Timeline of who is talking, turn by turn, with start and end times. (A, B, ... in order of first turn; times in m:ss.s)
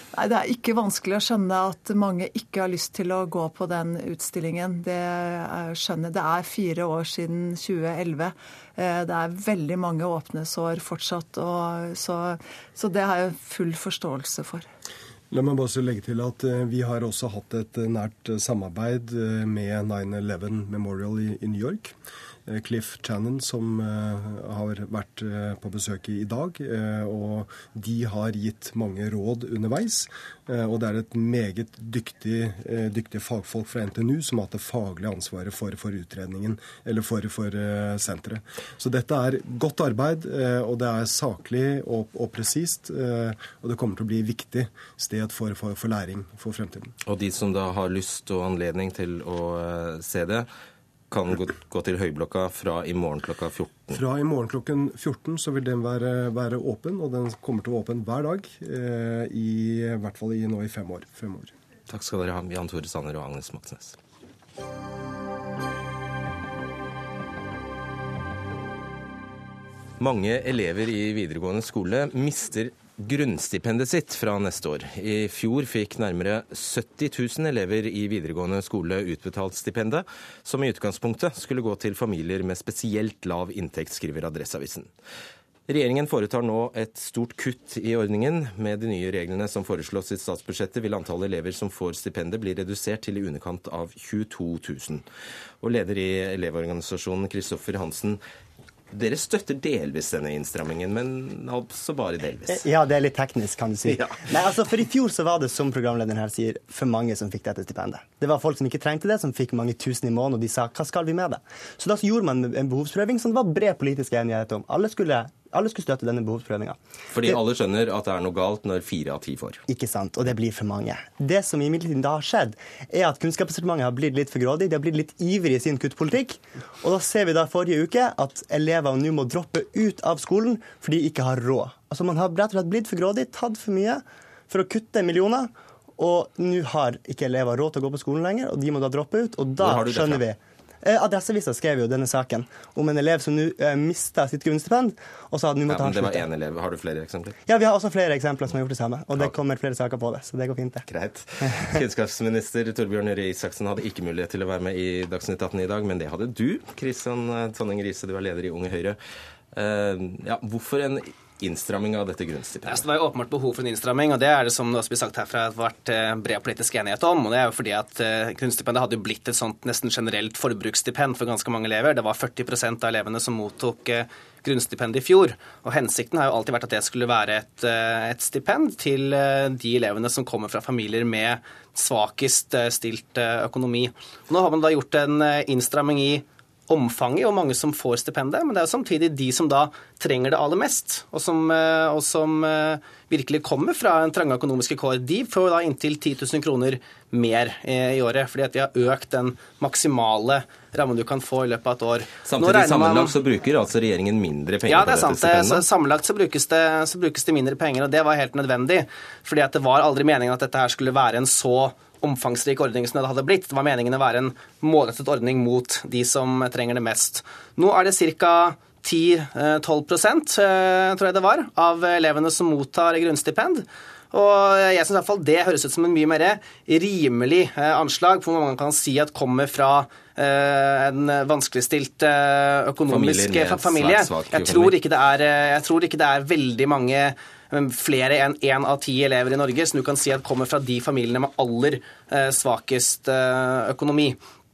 0:00.1-0:14.6 A
0:15.3-0:21.9 B
0:22.5-0:46.9 B
0:47.0-0:50.5 C
0:51.1-0:54.0 C
0:53.9-1:01.5 B
1:01.9-1:04.0 C
1:10.0-1:24.9 C
1:25.7-1:35.0 C
1:35.6-1:38.2 C
1:38.9-1:42.7 C
1:42.5-1:57.4 D
1:43.8-1:44.4 C
1:57.1-1:59.6 C
1:59.7-2:26.2 D
2:19.6-2:20.2 C
2:25.6-2:27.4 C
2:27.5-2:30.8 D
2:30.9-2:39.0 C
2:39.5-2:42.8 C
2:42.6-3:23.1 E
3:22.2-3:25.6 C
3:24.7-4:04.2 E
3:52.9-3:54.7 C